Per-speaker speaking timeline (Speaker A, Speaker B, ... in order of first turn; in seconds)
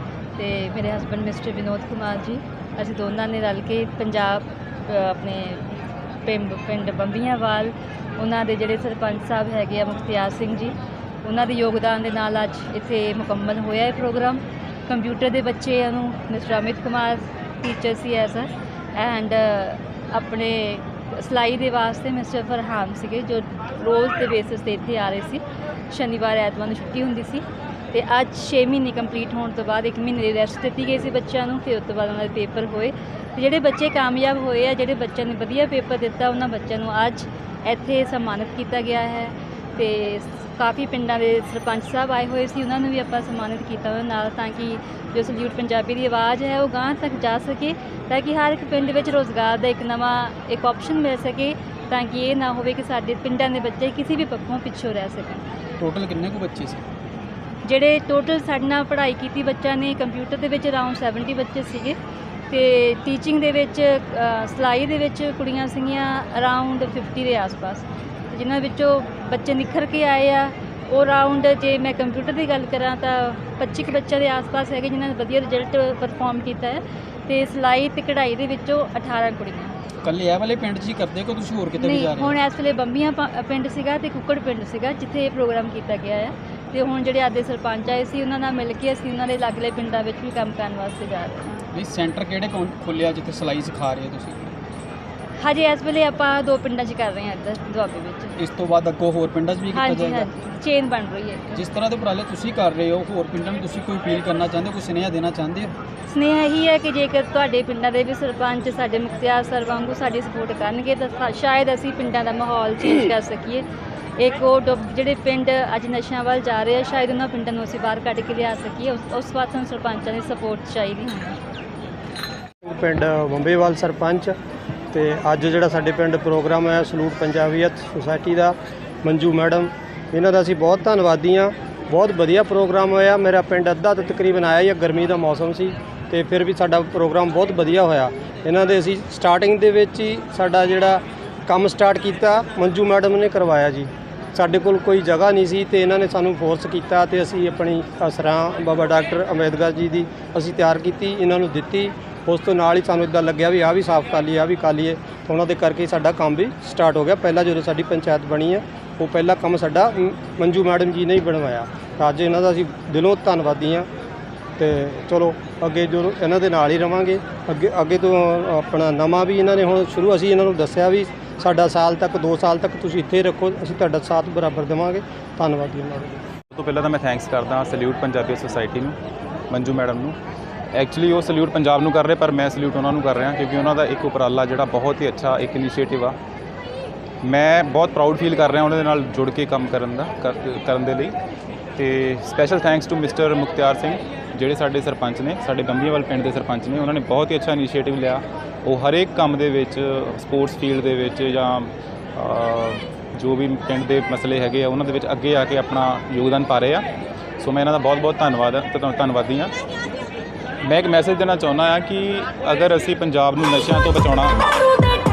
Speaker A: 0.4-55.5, 57.6-62.0, 62.5-79.8, 81.8-91.6, 95.4-98.3, 99.7-101.6, 106.1-113.6, 114.2-121.4
Speaker B: 55.8-56.9, 80.0-82.4, 91.7-94.5, 98.4-100.3, 101.5-105.7
Speaker C: 122.7-124.4, 124.9-163.9, 164.6-176.2
Speaker D: 176.5-179.0, 179.5-180.2, 180.7-186.2, 187.2-191.2, 191.8-206.8, 207.4-209.5, 210.6-214.4